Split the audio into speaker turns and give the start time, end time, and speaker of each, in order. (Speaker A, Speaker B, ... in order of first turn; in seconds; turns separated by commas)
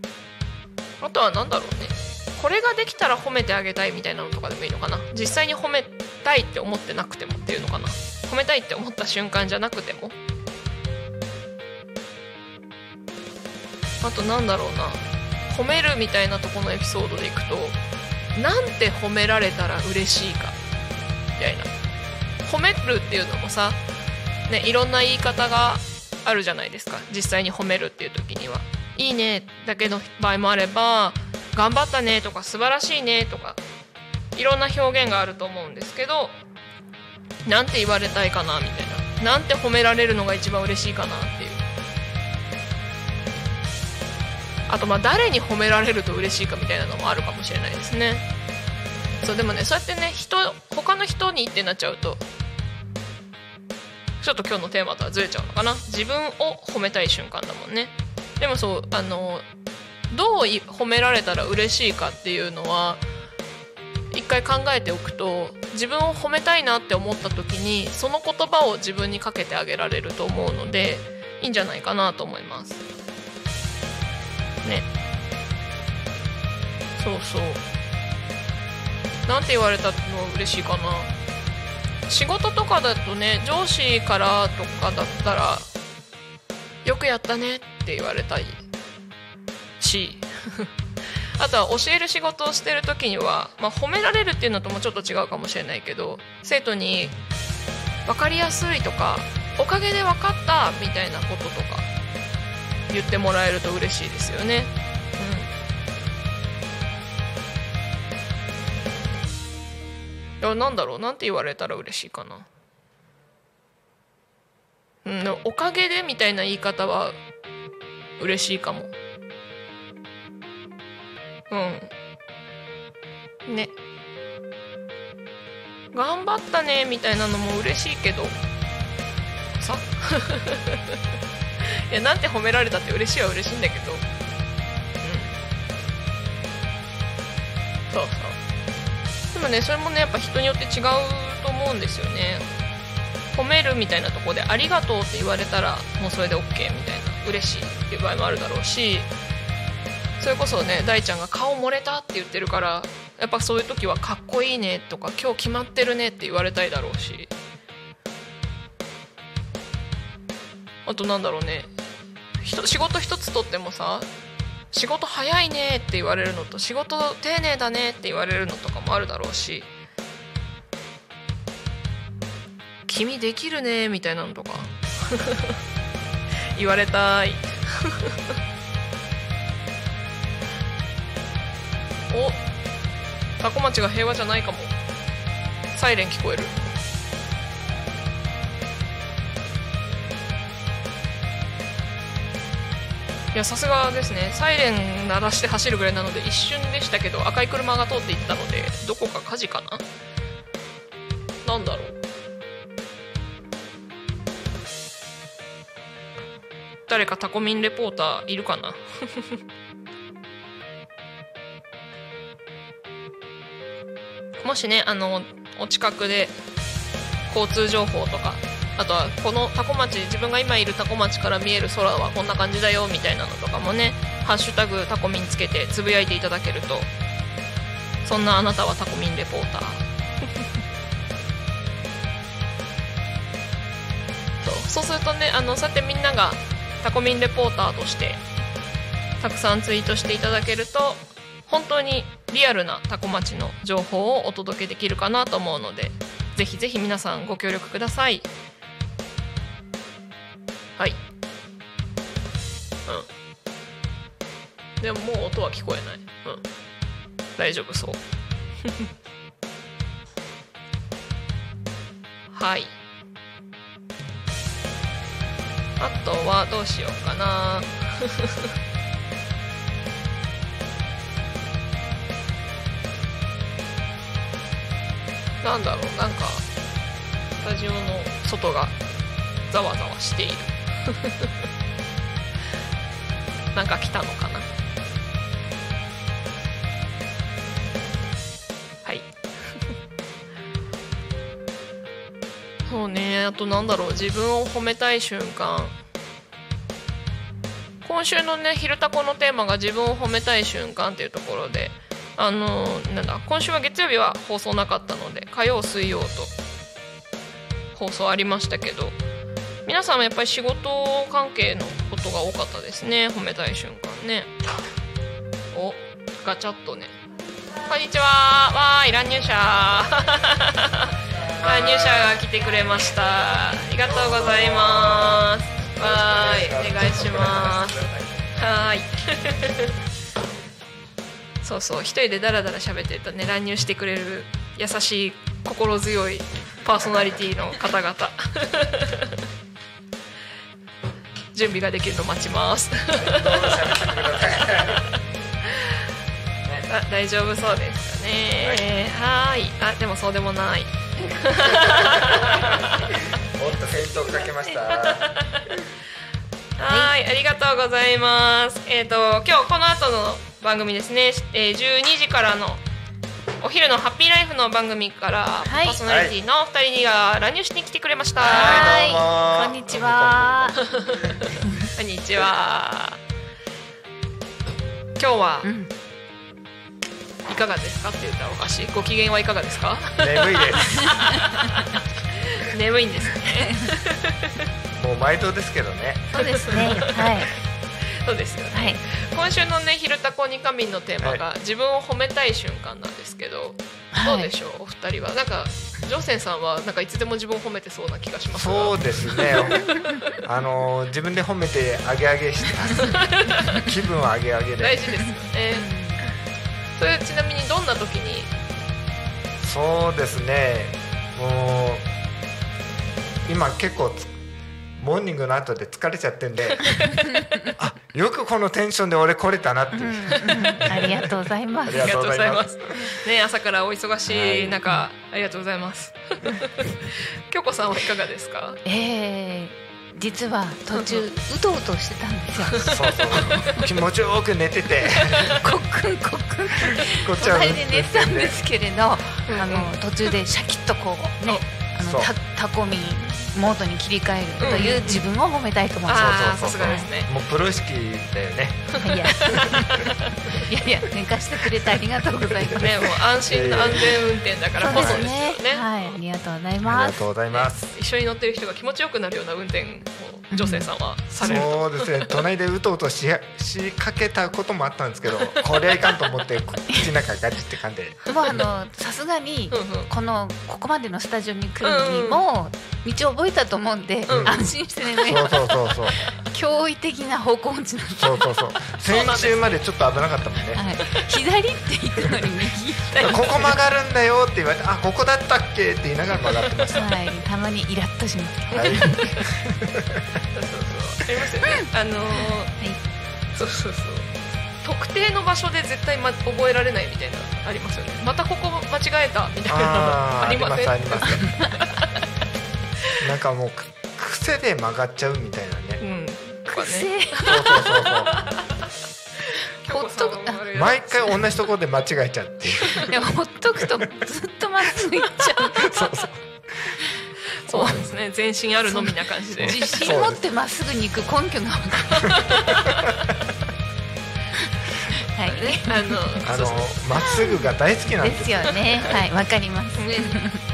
Speaker A: 1.0-10.1, Speaker A: 14.0-17.8, Speaker A: 18.4-20.6, Speaker A: 21.4-21.7, Speaker A: 22.4-23.8, Speaker A: 24.5-33.6, Speaker A: 34.3-36.4, Speaker A: 37.5-41.6, Speaker A: 44.7-48.2, Speaker A: 49.2-52.2, Speaker A: 54.2-59.4, Speaker A: 60.1-63.0, Speaker A: 64.1-72.8, Speaker A: 77.0-77.6, Speaker A: 79.2-81.1, Speaker A: 82.1-85.7, Speaker A: 86.8-88.6, Speaker A: 89.8-90.7, Speaker A: 91.4-97.2, Speaker A: 98.0-101.9, Speaker A: 102.9-105.5, Speaker A: 110.4-112.5, Speaker A: 115.0-117.2, Speaker A: 118.2-118.9, Speaker A: 121.5-121.9, Speaker A: 123.5-123.7, Speaker A: 125.9-128.3, Speaker A: 129.6-131.0, Speaker A: 131.6-134.0, Speaker A: 135.0-135.4, Speaker A: 137.9-138.4, Speaker A: 139.3-142.4, Speaker A: 143.3-149.1, Speaker A: 150.2-157.3, Speaker A: 160.8-161.7, Speaker A: 162.4-164.1, Speaker A: 164.7-169.7, Speaker A: 172.9-175.6, Speaker A: 176.6-178.2, Speaker A: 182.1-182.4, Speaker A: 183.4-184.7, Speaker A: 185.7-186.6, Speaker A: 193.3-199.8, Speaker A: 201.4-202.0, Speaker A: 206.9-209.4, Speaker A: 214.4-216.3, Speaker A: 217.3-226.9, Speaker A: 228.0-229.8, Speaker A: 234.4-238.2, Speaker A: 239.2-248.3, Speaker A: 254.8-256.4, Speaker A: 257.4-258.0, Speaker A: 262.3-262.7, Speaker A: 265.8-268.5, Speaker A: 275.4-276.4, Speaker A: 277.4-278.8, Speaker A: 279.5-281.3, Speaker A: 283.5-284.5, Speaker A: 288.8-289.6, Speaker A: 292.7-295.7, Speaker A: 297.8-306.3, Speaker A: 307.7-309.0, Speaker A: 309.6-314.3, Speaker A: 315.5-316.9, Speaker A: 317.7-327.8, Speaker B: 321.4-322.1, Speaker B: 323.8-328.4, Speaker A: 328.4-329.7, Speaker A: 331.4-339.1, Speaker A: 341.3-344.2, Speaker B: 342.9-345.0, Speaker A: 346.7-352.9, Speaker B: 351.5-355.5, Speaker C: 354.0-354.5, Speaker A: 354.9-355.4, Speaker A: 356.6-362.6, Speaker C: 356.7-356.9, Speaker A: 363.4-369.0, Speaker C: 365.4-365.8, Speaker B: 365.8-366.1, Speaker B: 368.2-370.5, Speaker C: 368.2-370.6, Speaker A: 370.6-373.0, Speaker C: 371.4-371.7, Speaker A: 375.0-375.5, Speaker C: 375.4-375.7, Speaker A: 377.2-384.4, Speaker B: 380.0-381.0, Speaker C: 380.8-381.5, Speaker B: 384.8-386.9, Speaker A: 386.1-387.3, Speaker C: 386.2-387.3, Speaker A: 388.0-399.6, Speaker C: 388.5-388.8, Speaker C: 393.9-394.3, Speaker B: 398.3-399.6, Speaker C: 399.4-400.2, Speaker B: 400.2-404.8, Speaker A: 402.8-403.6, Speaker A: 404.6-405.7, Speaker C: 405.0-406.0, Speaker A: 406.8-408.3, Speaker B: 409.4-411.9, Speaker B: 413.3-414.1, Speaker B: 414.8-416.7, Speaker A: 416.4-417.5, Speaker C: 416.8-417.5, Speaker B: 417.6-421.1, Speaker C: 419.7-422.0, Speaker A: 420.1-421.0, Speaker B: 421.6-422.9, Speaker A: 421.7-428.6, Speaker B: 424.1-424.6, Speaker C: 428.6-433.6, Speaker A: 430.7-431.1, Speaker B: 432.7-435.4, Speaker A: 432.7-433.6, Speaker C: 435.4-446.9, Speaker B: 436.8-438.4, Speaker A: 439.2-440.1, Speaker B: 441.8-442.1, Speaker A: 444.4-445.1, Speaker B: 444.4-444.8, Speaker A: 445.8-447.1, Speaker B: 445.9-448.7, Speaker C: 448.8-449.8, Speaker A: 448.8-450.1, Speaker C: 450.5-452.7, Speaker B: 452.4-454.0, Speaker A: 452.5-456.0, Speaker C: 454.6-457.0, Speaker B: 454.6-455.1, Speaker B: 456.6-457.7, Speaker A: 457.3-462.2, Speaker C: 460.3-461.5, Speaker B: 461.2-468.4, Speaker A: 465.2-465.5, Speaker A: 468.1-468.5, Speaker C: 468.1-478.2, Speaker A: 469.5-469.9, Speaker A: 471.6-472.2, Speaker A: 474.1-475.0, Speaker B: 474.1-475.9, Speaker B: 477.9-480.7, Speaker A: 478.8-479.6, Speaker C: 480.5-483.6, Speaker B: 483.0-487.0, Speaker A: 486.2-486.9, Speaker C: 486.7-489.1, Speaker A: 488.5-489.2, Speaker B: 488.5-490.0, Speaker A: 490.3-492.5, Speaker C: 491.5-492.8, Speaker A: 493.3-494.1, Speaker A: 494.6-501.9, Speaker B: 499.5-501.3, Speaker B: 503.0-505.8, Speaker A: 505.8-508.5, Speaker C: 506.5-507.7, Speaker B: 507.2-508.1, Speaker A: 509.2-511.2, Speaker C: 509.6-510.4, Speaker B: 510.5-513.1, Speaker C: 512.8-515.8, Speaker B: 513.6-513.9, Speaker B: 515.2-516.8, Speaker A: 517.4-520.0, Speaker C: 517.5-517.8, Speaker B: 517.5-517.8, Speaker C: 518.7-522.2, Speaker B: 519.4-520.3, Speaker A: 522.0-522.8, Speaker C: 525.1-526.2, Speaker A: 525.2-526.9, Speaker B: 526.2-529.1, Speaker C: 527.0-530.4, Speaker A: 528.5-528.8, Speaker A: 529.8-530.2